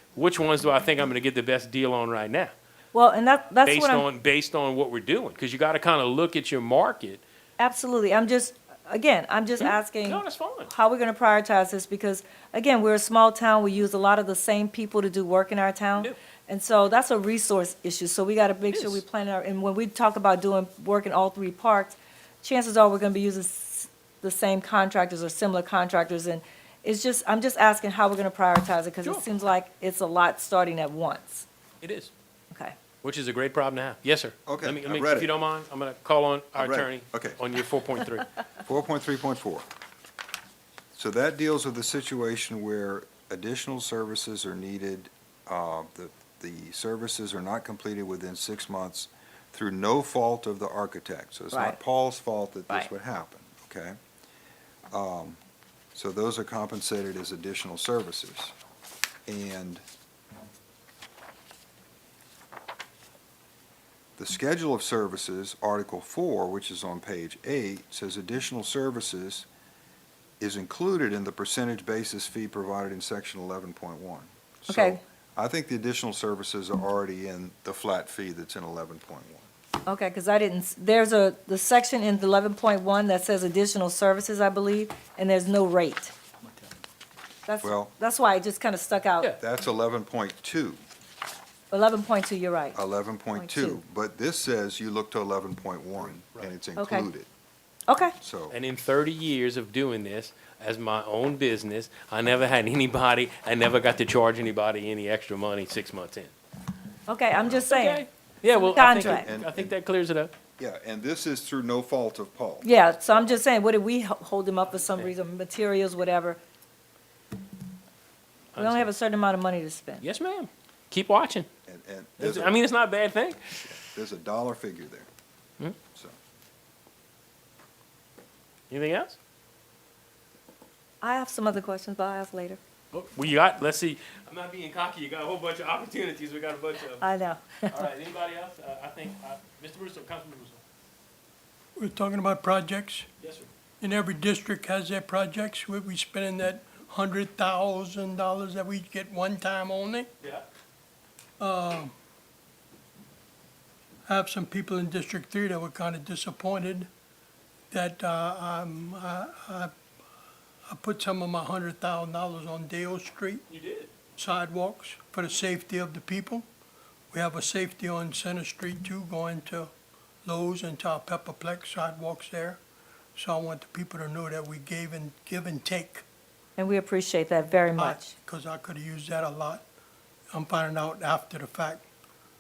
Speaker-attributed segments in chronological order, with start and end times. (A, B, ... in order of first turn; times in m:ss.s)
0:00.2-0:02.5 A
0:02.9-0:04.1 B
0:03.6-0:07.2 A
0:07.6-0:31.4 B
0:09.6-0:10.7 A
0:18.7-0:19.0 A
0:31.8-0:32.1 A
0:33.0-0:38.3 A
0:34.5-0:35.3 C
0:36.6-0:37.4 C
0:38.6-0:39.7 C
0:41.0-0:54.0 C
0:51.5-0:51.8 B
0:54.9-0:55.4 C
0:55.9-0:58.5 C
0:59.3-0:59.8 C
1:04.2-1:09.5 C
1:10.4-1:19.5 C
1:14.7-1:15.0 B
1:19.9-1:26.1 B
1:27.5-1:29.3 B
1:27.6-1:27.9 C
1:29.4-1:30.8 C
1:31.7-1:32.8 B
1:32.8-1:37.3 C
1:33.3-1:33.8 B
1:36.0-1:36.6 A
1:36.8-1:37.1 B
1:37.9-1:38.2 B
1:38.2-1:38.6 C
1:38.5-1:46.3 A
1:47.1-1:49.3 B
1:47.4-1:50.3 A
1:49.0-1:49.7 C
1:50.6-1:52.7 C
1:52.6-1:56.4 B
1:54.7-1:55.1 A
1:58.5-1:58.9 A
1:58.6-2:00.0 B
2:00.0-2:01.5 A
2:01.7-2:02.6 C
2:02.2-2:03.6 A
2:03.6-2:05.1 C
2:08.7-2:09.2 A
2:11.0-2:12.6 B
2:12.9-2:17.0 A
2:17.0-2:17.7 B
2:17.7-2:20.6 A
2:21.8-2:23.1 D
2:23.2-2:23.5 A
2:23.8-2:30.1 D
2:31.4-2:31.9 D
2:34.1-2:36.9 D
2:37.7-2:39.7 D
2:40.7-2:43.4 D
2:43.5-2:43.9 A
2:44.2-2:46.5 D
2:47.1-2:49.7 D
2:50.2-2:52.6 D
2:53.2-2:56.0 D
2:56.6-2:58.2 B
2:57.8-2:59.6 D
3:00.3-3:01.8 D